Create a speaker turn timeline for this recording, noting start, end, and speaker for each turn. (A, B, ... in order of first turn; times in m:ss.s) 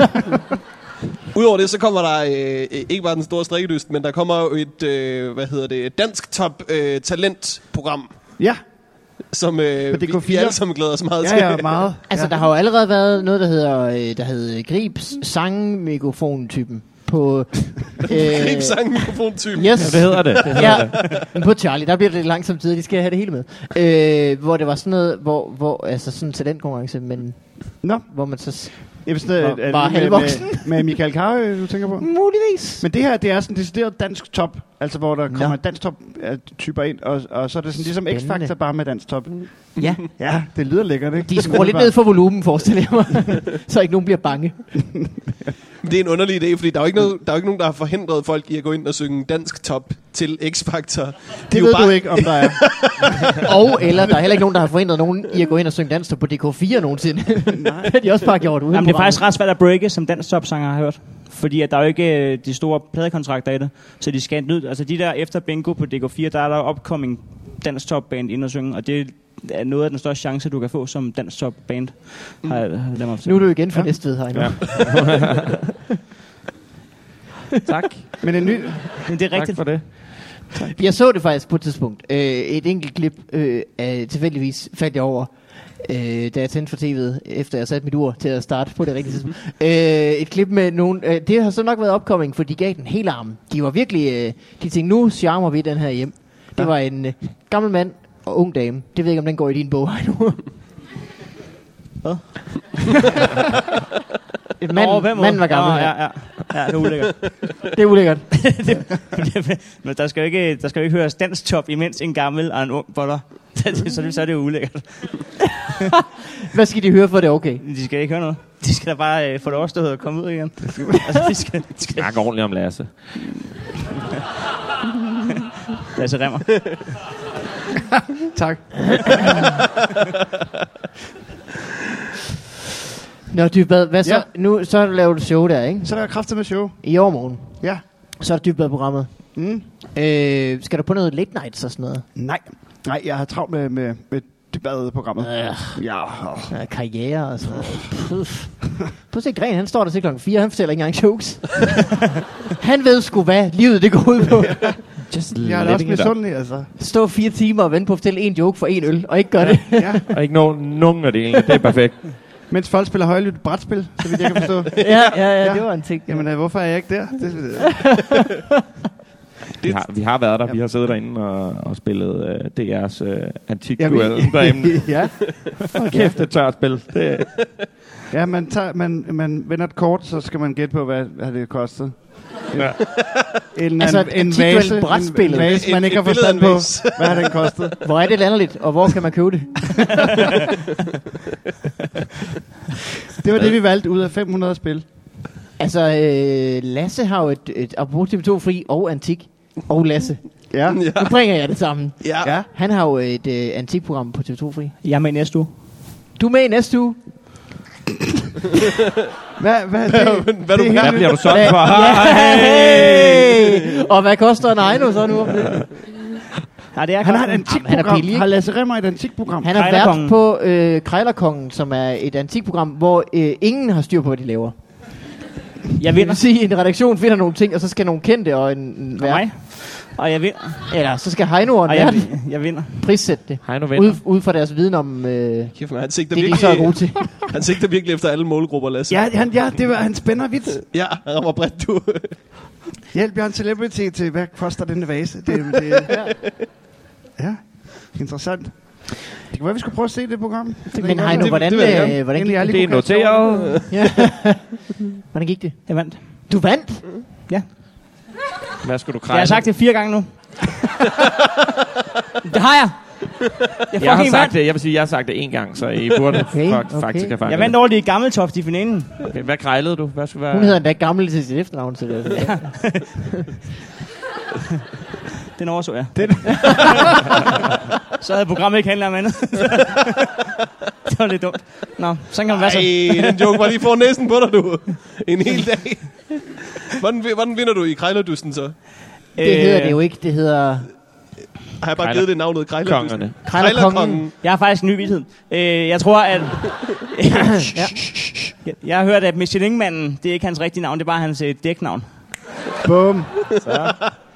0:01.3-0:08.3 A
0:09.3-0:11.8 A
0:09.9-0:12.4 B
0:12.1-0:19.0 C
0:18.1-0:21.2 A
0:19.5-0:31.0 C
0:19.8-0:21.1 D
0:27.8-0:42.2 B
0:32.0-0:32.8 C
0:35.3-0:35.6 C
0:37.8-0:38.6 C
0:39.8-0:40.2 C
0:41.3-0:44.7 C
0:44.8-0:45.5 B
0:45.8-0:53.4 A
0:51.5-0:53.4 B
0:53.3-0:59.3 C
0:57.5-0:58.2 B
0:58.7-1:13.5 E
1:13.2-1:15.3 C
1:13.7-1:14.7 B
1:14.3-1:15.3 D
1:17.7-1:18.2 D
1:18.2-1:19.1 B
1:19.1-1:19.7 E
1:19.2-1:20.7 D
1:20.7-1:40.5 C
1:42.0-1:42.3 E
1:44.6-1:46.4 C
1:44.7-1:47.6 E
1:47.7-1:48.5 C
1:48.3-1:55.4 E
1:56.5-1:57.6 C
1:57.6-2:02.1 E
2:00.6-2:01.0 B
2:02.0-2:03.2 D
2:05.9-2:06.8 E
2:08.4-2:09.4 C
2:13.3-2:22.1 C
2:15.8-2:17.1 B
2:17.6-2:17.9 B
2:19.3-2:19.7 B
2:22.1-2:26.6 B
2:25.2-2:26.0 C
2:26.5-2:32.0 C
2:27.5-2:27.9 B
2:32.6-2:35.0 C
2:35.1-2:36.2 D
2:35.3-2:36.7 B
2:36.8-2:40.1 C
2:39.7-2:40.0 B
2:40.1-2:42.2 D
2:42.5-2:47.9 B
2:44.7-2:46.4 C
2:44.8-2:45.2 A
2:47.6-2:48.5 C
2:49.6-2:49.9 A
2:49.6-2:57.7 D
2:53.8-2:56.2 B
2:58.1-3:07.8 B
3:03.8-3:05.7 C
3:05.3-3:07.8 A
3:07.8-3:10.1 C
3:13.2-3:14.9 B
3:15.6-3:24.8 C
3:20.5-3:20.9 B
3:20.7-3:21.2 A
3:22.0-3:22.3 A
3:22.2-3:22.5 B
3:24.8-3:25.5 E
3:26.2-3:27.4 C
3:29.4-3:31.7 B
3:29.9-3:31.5 A
3:30.8-3:33.3 D
3:31.2-3:35.8 C
3:36.7-3:37.5 E
3:37.0-3:39.6 B
3:37.4-3:38.3 C
3:39.4-3:44.7 C
3:39.5-3:40.2 E
3:45.8-3:46.2 E
3:45.9-3:49.3 C
3:49.0-3:50.8 E
3:50.7-3:57.3 C
3:51.6-3:52.8 E
3:53.4-3:54.0 D
3:55.6-3:59.5 A
3:58.9-4:00.7 B
4:00.6-4:02.3 A
4:02.9-4:06.1 B
4:05.9-4:06.3 C
4:07.2-4:13.3 B
4:10.7-4:17.1 C
4:10.9-4:12.0 A
4:12.1-4:13.7 D
4:13.4-4:13.9 A
4:15.7-4:16.3 E
4:18.6-4:19.5 D
4:19.1-4:20.5 E
4:22.2-4:24.4 E
4:23.8-4:27.6 D
4:26.3-4:27.2 C
4:27.3-4:29.0 E
4:29.0-4:30.6 D
4:30.3-4:33.0 C
4:32.2-4:32.8 E
4:35.4-4:36.8 E
4:35.9-4:37.0 B
4:36.5-4:36.7 C
4:38.0-4:40.1 E
4:40.9-4:43.2 E
4:42.3-4:48.6 A
4:49.2-4:49.8 E
4:49.2-4:50.9 C
4:51.6-4:54.1 A
4:51.8-4:53.2 D
4:53.2-4:54.1 C
4:54.2-4:57.7 E
4:57.5-4:57.8 C
4:58.4-5:02.0 E
5:02.6-5:03.4 B
5:03.3-5:03.7 A
5:03.4-5:04.0 E